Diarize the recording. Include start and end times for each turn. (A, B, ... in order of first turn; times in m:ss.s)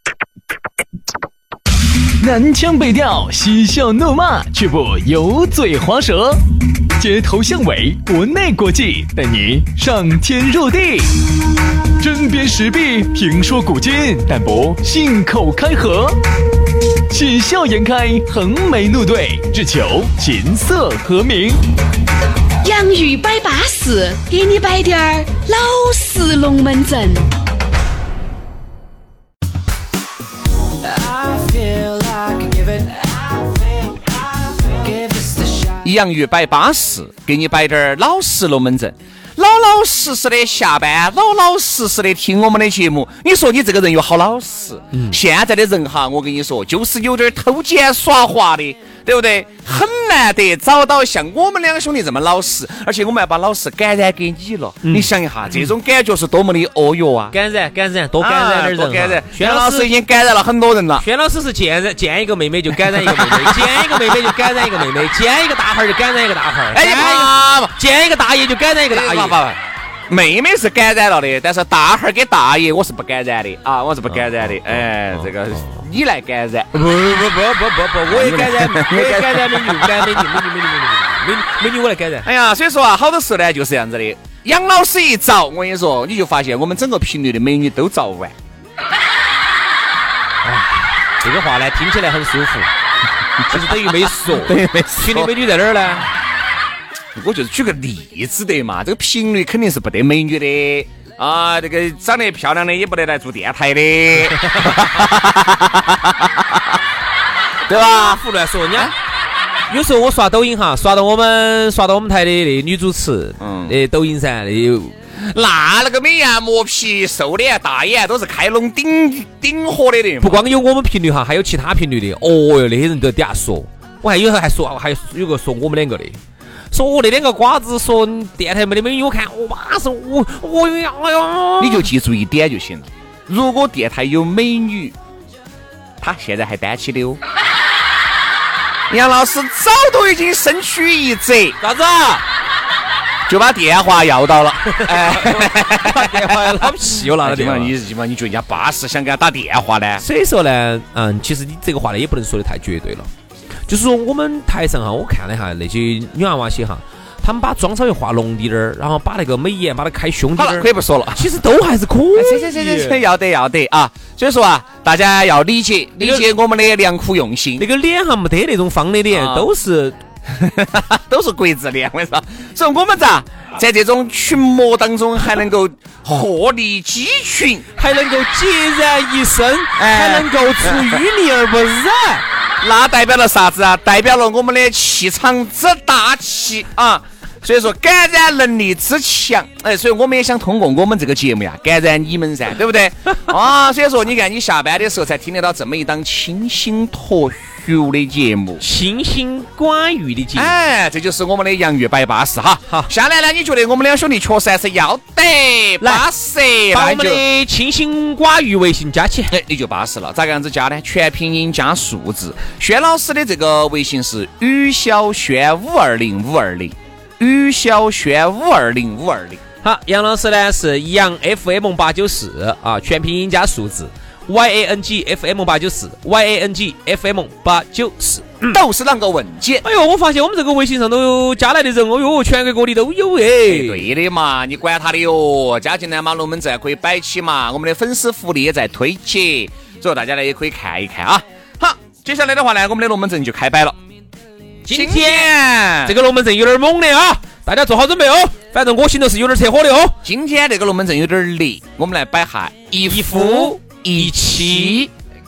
0:02.2-0:06.4 A
0:07.0-0:11.1 A
0:12.0-0:16.2 A
0:17.1-0:21.6 A
0:22.6-0:27.3 B
0:35.6-0:57.4 C
0:44.9-0:45.2 D
0:54.8-0:55.7 D
0:57.3-0:59.9 D
0:58.2-1:01.0 C
1:01.0-1:09.4 D
1:02.8-1:03.8 C
1:06.7-1:07.7 C
1:08.9-1:09.6 C
1:10.1-1:16.9 C
1:14.3-1:15.8 D
1:16.8-1:22.3 D
1:18.1-1:20.2 C
1:22.2-1:28.4 C
1:30.4-1:32.7 D
1:33.5-1:36.1 D
1:33.5-1:35.3 C
1:37.2-1:46.6 C
1:44.4-1:44.8 D
1:47.7-1:48.2 C
1:47.7-1:48.9 D
1:49.7-1:55.0 D
1:53.4-1:53.8 C
1:55.2-2:00.4 C
2:00.2-2:06.2 D
2:06.7-2:11.9 D
2:11.6-2:14.9 C
2:16.0-2:17.2 C
2:18.9-2:21.6 C
2:21.6-2:22.2 D
2:23.3-2:30.0 C
2:24.7-2:27.7 D
2:30.0-2:33.1 D
2:33.7-2:43.0 D
2:40.4-2:41.3 C
2:42.1-2:47.7 C
2:46.0-2:46.3 D
2:47.6-2:50.0 D
2:49.1-2:49.5 C
2:50.3-2:57.7 C
2:57.8-3:02.2 D
2:59.8-3:01.0 C
3:02.6-3:18.6 C
3:18.6-3:20.5 D
3:20.3-3:27.2 C
3:25.8-3:26.0 D
3:26.7-3:29.3 D
3:29.3-3:39.4 C
3:39.6-3:48.6 D
3:48.5-3:49.6 C
3:49.6-3:53.9 D
3:53.4-4:03.8 C
4:04.6-4:10.0 D
4:04.7-4:06.0 C
4:10.0-4:14.9 C
4:12.9-4:14.9 D